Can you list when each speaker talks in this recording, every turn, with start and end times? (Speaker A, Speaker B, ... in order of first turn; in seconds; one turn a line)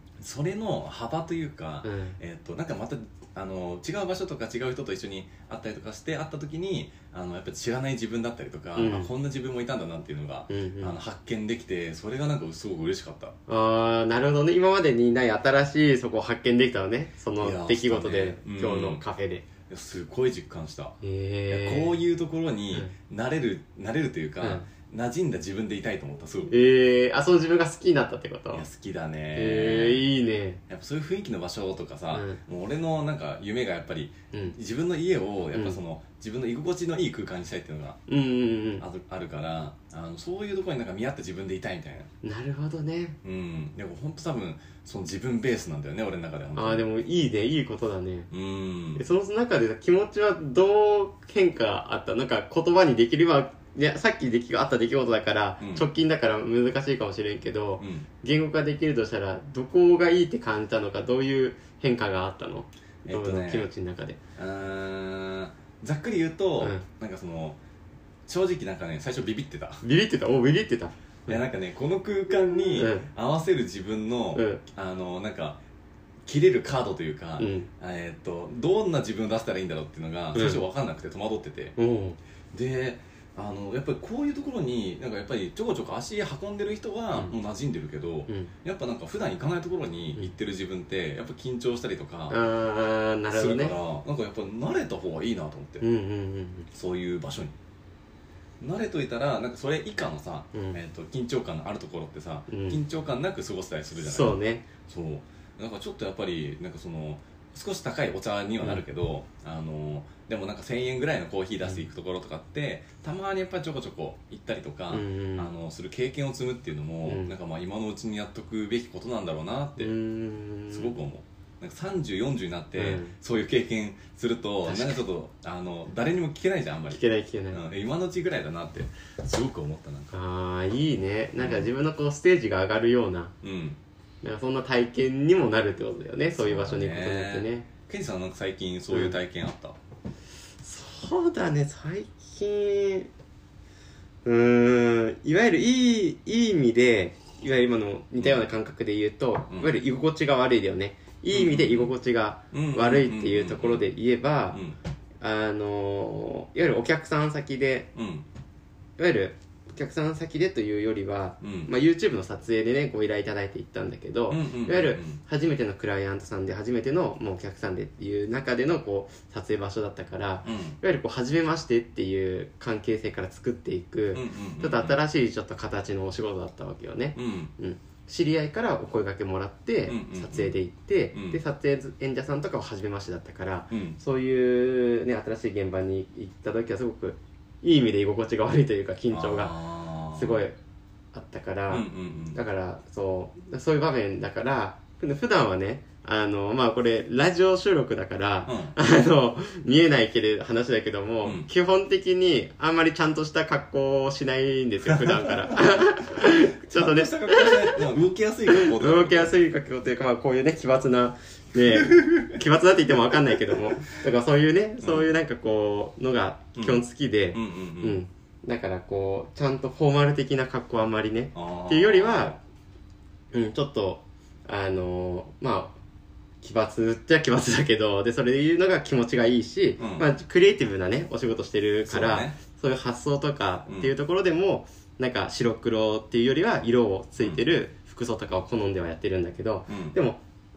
Speaker A: 0.2-13.4
Speaker B: 1.8-2.2
Speaker B: 8.8-9.1
Speaker B: 10.5-11.0
Speaker B: 13.5-19.4
Speaker A: 17.4-19.0
Speaker A: 19.7-20.9
Speaker B: 21.0-22.0
Speaker A: 21.5-26.5
Speaker B: 24.4-24.7
Speaker B: 26.5-28.6
Speaker A: 28.5-30.1
Speaker B: 29.4-30.6
Speaker A: 30.7-38.0
Speaker B: 32.1-32.4
Speaker B: 35.5-35.8
Speaker B: 38.1-38.9
Speaker A: 38.8-42.1
Speaker B: 42.2-43.2
Speaker A: 43.2-46.9
Speaker B: 46.6-48.3
Speaker A: 48.3-49.0
Speaker B: 49.0-64.2
Speaker A: 55.6-55.9
Speaker A: 57.8-58.1
Speaker A: 63.0-63.7
Speaker A: 64.4-67.6
Speaker B: 66.6-66.9
Speaker A: 68.3-69.8
Speaker B: 69.8-71.4
Speaker A: 71.3-75.6
Speaker B: 72.8-73.1
Speaker B: 74.3-74.6
Speaker A: 76.3-81.8
Speaker B: 77.4-77.7
Speaker B: 80.3-80.6
Speaker B: 81.8-82.2
Speaker A: 82.5-92.4
Speaker B: 92.3-93.8
Speaker A: 93.3-95.8
Speaker B: 95.8-96.7
Speaker A: 96.7-97.5
Speaker A: 98.6-119.9
Speaker B: 102.5-102.8
Speaker B: 104.0-104.7
Speaker B: 114.9-115.5
Speaker B: 117.1-117.3
Speaker B: 119.8-121.0
Speaker A: 120.7-130.2
Speaker B: 122.8-123.1
Speaker B: 124.7-125.0
Speaker B: 126.9-127.6
Speaker B: 130.1-133.3
Speaker A: 131.4-131.7
Speaker A: 133.4-133.8
Speaker B: 134.2-137.7
Speaker A: 136.3-139.8
Speaker B: 140.6-143.1
Speaker B: 144.2-154.6
Speaker A: 148.2-148.4
Speaker A: 151.3-151.9
Speaker A: 152.5-153.9
Speaker A: 154.5-154.8
Speaker B: 155.2-157.9
Speaker A: 157.9-158.3
Speaker B: 159.0-189.6
Speaker A: 161.4-161.7
Speaker A: 164.3-165.2
Speaker A: 170.4-170.8
Speaker A: 174.1-175.0
Speaker A: 177.2-177.5
Speaker A: 179.9-180.5
Speaker A: 181.1-181.4
Speaker A: 183.7-184.0
Speaker A: 189.1-190.4
Speaker B: 190.1-190.6
Speaker B: 191.1-207.8
Speaker A: 191.7-192.4
Speaker A: 198.5-198.8
Speaker A: 204.9-209.3
Speaker B: 208.5-222.4
Speaker A: 211.6-212.4
Speaker A: 213.1-213.8
Speaker A: 214.8-215.1
Speaker A: 216.6-218.0
Speaker A: 221.3-222.4
Speaker B: 223.3-225.8
Speaker B: 226.4-240.2
Speaker A: 229.8-230.1
Speaker A: 231.9-232.4
Speaker A: 233.7-233.9
Speaker A: 239.7-240.0